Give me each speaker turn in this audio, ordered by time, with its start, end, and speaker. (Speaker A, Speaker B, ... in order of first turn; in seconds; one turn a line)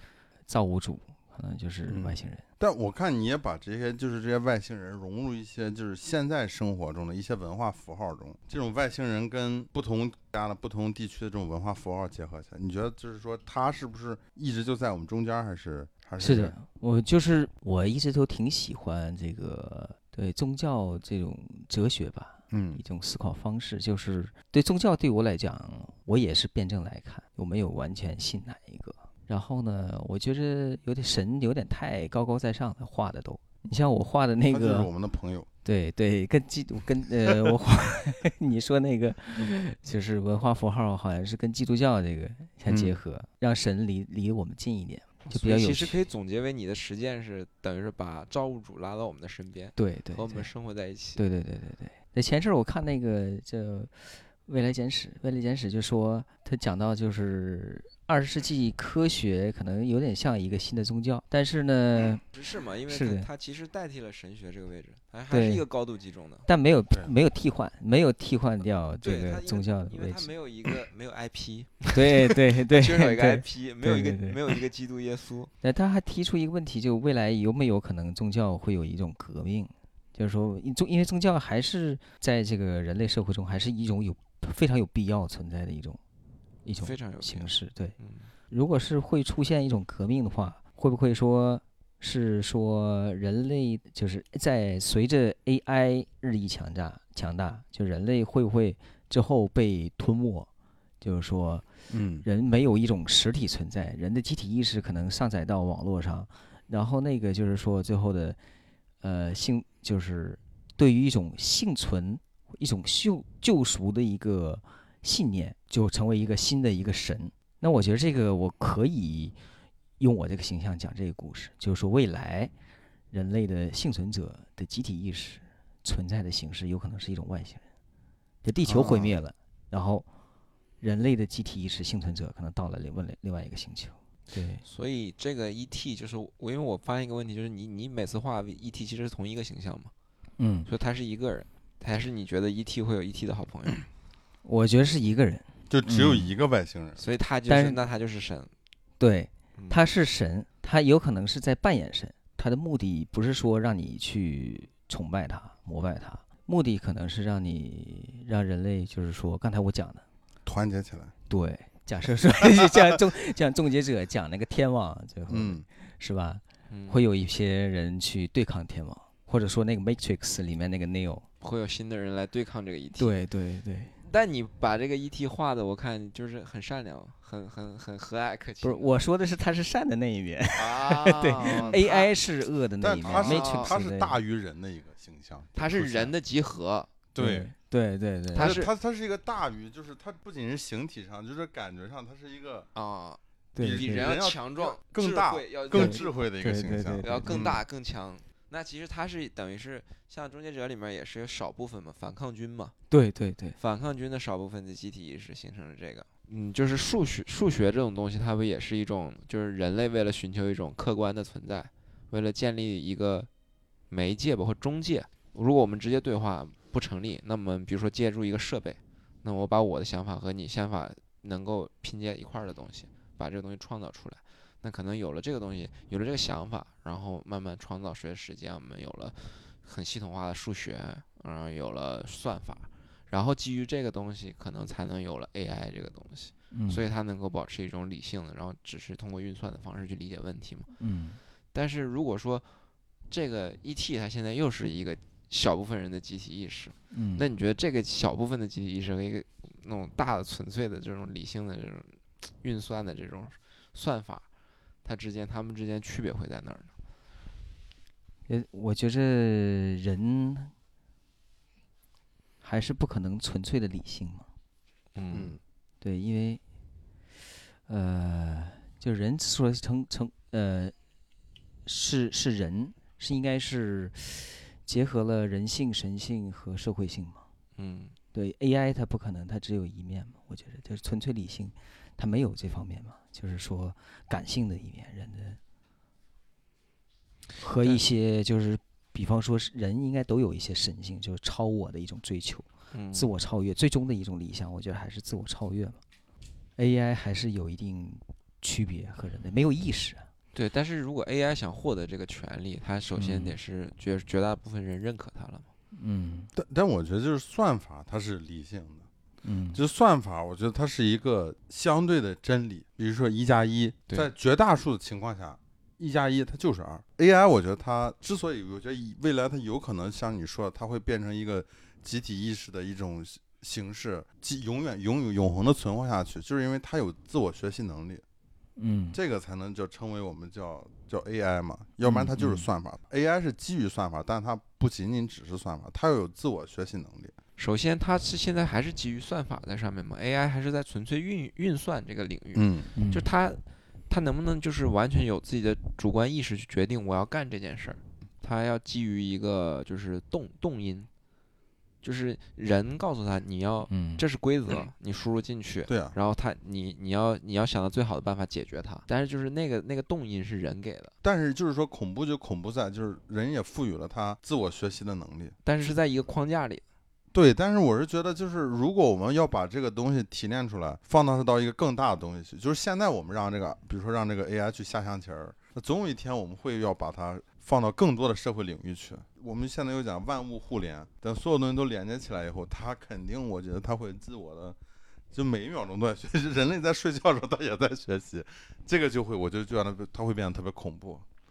Speaker A: 0.5-2.4
Speaker B: 1.9-16.6
Speaker A: 16.2-34.9
Speaker B: 22.5-22.8
Speaker B: 34.5-35.5
Speaker A: 35.6-46.0
Speaker B: 42.7-43.0
Speaker C: 45.3-51.2
Speaker A: 49.8-50.5
Speaker A: 51.2-62.2
Speaker C: 62.3-66.5
Speaker A: 62.9-63.3
Speaker A: 65.3-65.6
Speaker A: 66.5-70.3
Speaker C: 69.0-75.5
Speaker A: 71.9-74.5
Speaker A: 75.6-86.0
Speaker A: 86.6-88.0
Speaker C: 86.8-88.3
Speaker A: 88.5-100.5
Speaker A: 101.0-101.7
Speaker B: 101.9-102.2
Speaker A: 102.2-108.4
Speaker A: 109.0-119.3
Speaker A: 120.0-122.5
Speaker A: 123.1-127.6
Speaker A: 128.4-130.1
Speaker B: 128.7-129.1
Speaker A: 130.8-134.6
Speaker C: 134.6-139.9
Speaker A: 140.4-140.7
Speaker C: 140.7-143.8
Speaker A: 144.4-146.3
Speaker B: 145.7-147.0
Speaker C: 147.0-148.5
Speaker A: 147.5-147.8
Speaker A: 149.0-160.0
Speaker C: 149.5-149.8
Speaker B: 160.4-161.1
Speaker A: 161.3-171.2
Speaker B: 165.3-165.6
Speaker C: 166.7-167.0
Speaker C: 171.4-173.2
Speaker A: 173.0-173.9
Speaker C: 174.0-178.9
Speaker A: 178.6-184.2
Speaker C: 180.6-182.1
Speaker B: 181.4-181.8
Speaker B: 182.8-186.1
Speaker C: 183.1-183.7
Speaker C: 185.5-186.9
Speaker B: 187.1-187.5
Speaker A: 187.2-188.7
Speaker C: 188.3-188.7
Speaker B: 188.3-192.7
Speaker C: 192.7-196.2
Speaker A: 193.5-194.1
Speaker B: 193.6-197.6
Speaker A: 195.7-197.4
Speaker C: 197.0-202.7
Speaker A: 202.9-203.6
Speaker C: 203.6-213.3
Speaker C: 213.9-240.7
Speaker A: 236.5-236.8
Speaker A: 240.8-241.2
Speaker C: 241.5-242.5
Speaker C: 243.1-254.2
Speaker A: 246.9-247.3
Speaker C: 254.8-256.7
Speaker A: 258.3-260.5
Speaker A: 262.4-264.3
Speaker C: 264.9-265.4
Speaker B: 265.1-265.4
Speaker A: 265.8-266.4
Speaker A: 267.7-270.7
Speaker A: 271.6-277.2
Speaker C: 277.6-277.9
Speaker A: 278.1-285.4
Speaker A: 287.4-295.8
Speaker C: 292.7-293.1
Speaker A: 296.6-300.1
Speaker C: 300.3-305.5
Speaker A: 302.9-303.4
Speaker A: 305.7-306.3
Speaker B: 306.3-308.9
Speaker A: 309.2-309.6
Speaker B: 309.5-328.0
Speaker A: 328.6-329.0
Speaker B: 328.9-337.1
Speaker A: 331.8-332.5
Speaker C: 337.4-350.9
Speaker B: 342.3-342.7
Speaker A: 342.7-343.1
Speaker C: 351.8-360.9
Speaker A: 353.7-354.0
Speaker B: 355.7-355.9
Speaker B: 361.0-365.3
Speaker C: 365.4-366.6
Speaker B: 367.1-384.6
Speaker B: 385.1-391.0